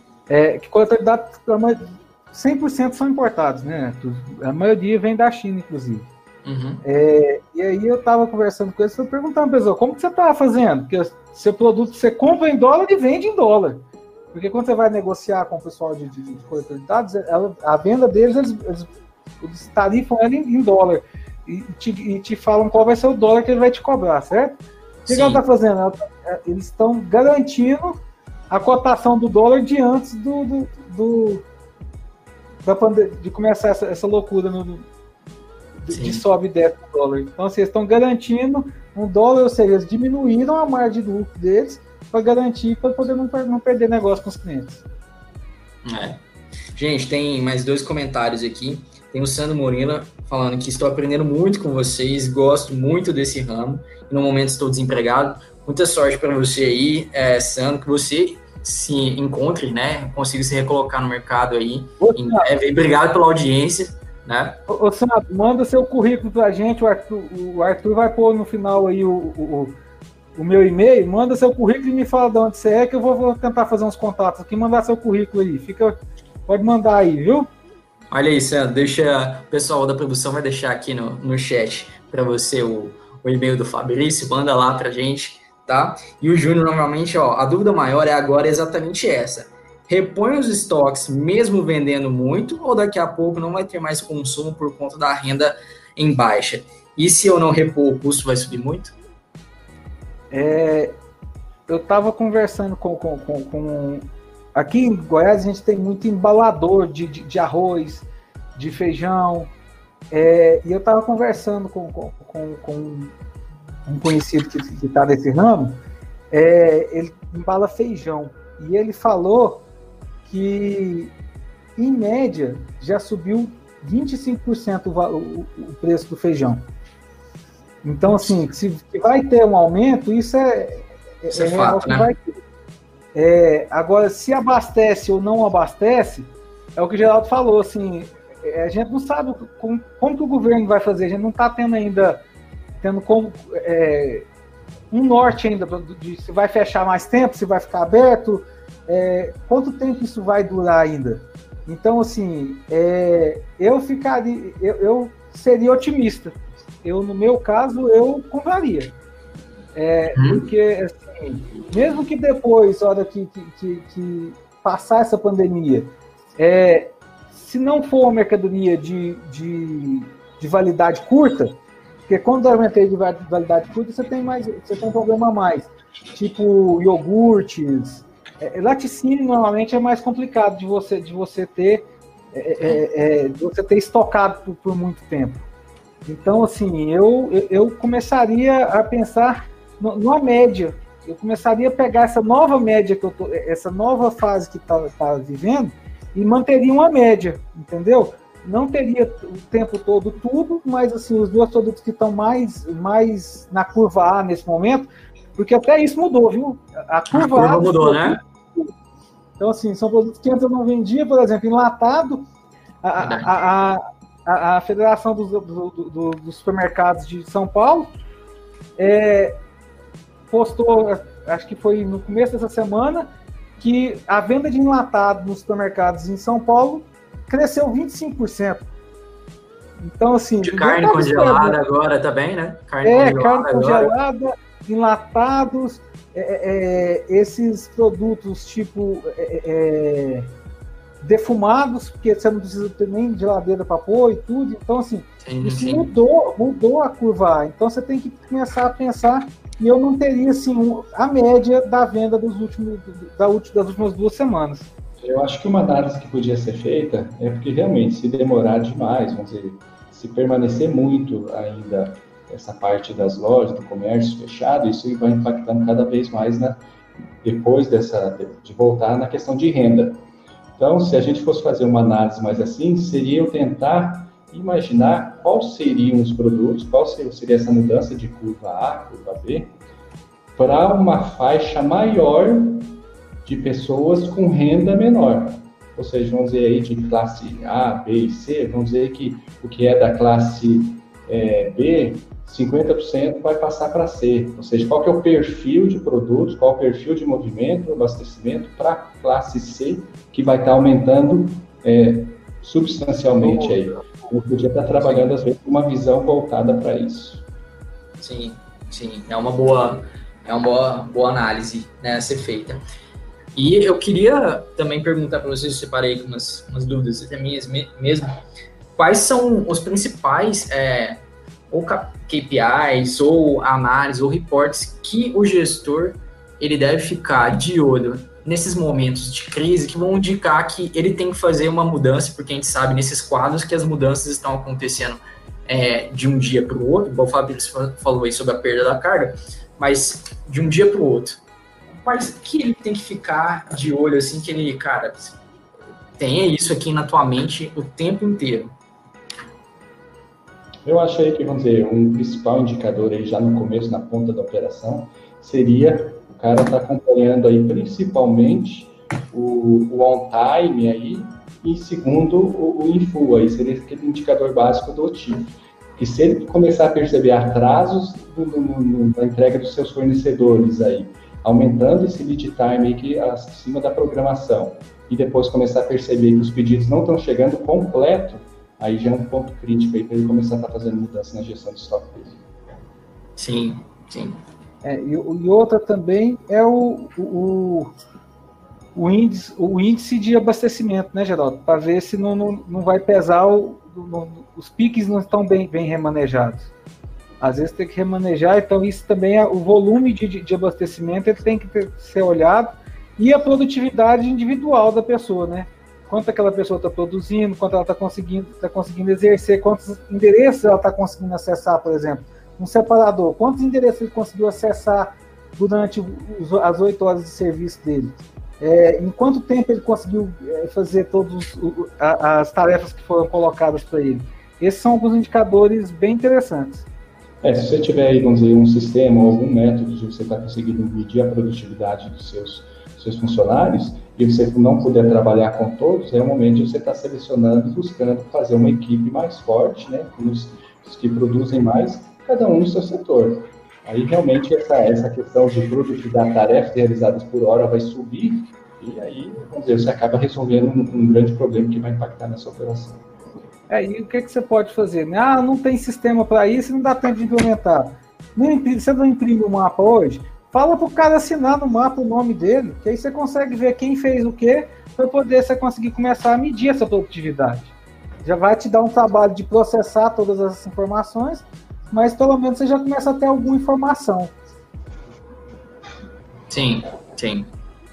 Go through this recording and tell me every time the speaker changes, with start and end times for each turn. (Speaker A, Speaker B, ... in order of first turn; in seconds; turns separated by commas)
Speaker A: 0.3-6.1, Speaker B: 6.5-6.8, Speaker A: 6.8-18.9, Speaker A: 19.4-31.4, Speaker B: 25.1-25.4, Speaker A: 32.6-34.9, Speaker A: 35.8-44.8, Speaker B: 35.9-36.2, Speaker B: 45.9-46.2, Speaker B: 46.8-64.6, Speaker A: 62.0-62.5, Speaker A: 64.7-69.8, Speaker A: 70.3-77.5, Speaker B: 78.1-99.0, Speaker A: 100.3-101.0, Speaker A: 101.7-109.5, Speaker A: 110.1-113.1, Speaker A: 113.9-119.6, Speaker A: 120.3-121.1, Speaker A: 121.8-126.6, Speaker A: 127.8-132.4, Speaker B: 131.3-132.1, Speaker A: 133.1-142.2, Speaker A: 142.8-144.3, Speaker A: 144.9-158.9, Speaker A: 159.7-171.6, Speaker B: 160.1-160.5, Speaker A: 172.1-185.5, Speaker A: 186.1-208.7, Speaker B: 207.1-208.2, Speaker A: 209.4-212.3, Speaker A: 212.8-217.9, Speaker B: 213.0-213.3, Speaker A: 218.8-219.4, Speaker A: 220.3-228.7, Speaker A: 229.8-231.6, Speaker B: 230.4-233.9, Speaker A: 232.8-240.3, Speaker A: 241.0-254.7, Speaker B: 245.2-245.9, Speaker C: 255.0-266.6, Speaker C: 267.2-270.0, Speaker C: 270.6-279.5, Speaker C: 280.4-307.2, Speaker B: 303.2-304.1, Speaker B: 304.8-305.1, Speaker B: 308.0-312.6, Speaker B: 313.4-318.2, Speaker B: 318.8-341.2, Speaker B: 341.8-345.2, Speaker B: 346.0-348.5, Speaker C: 350.6-382.2, Speaker B: 383.2-384.2, Speaker A: 384.6-387.7, Speaker A: 388.8-396.5, Speaker A: 397.2-426.7, Speaker C: 427.2-452.8, Speaker A: 453.5-467.5, Speaker A: 468.0-474.1, Speaker B: 476.3-477.3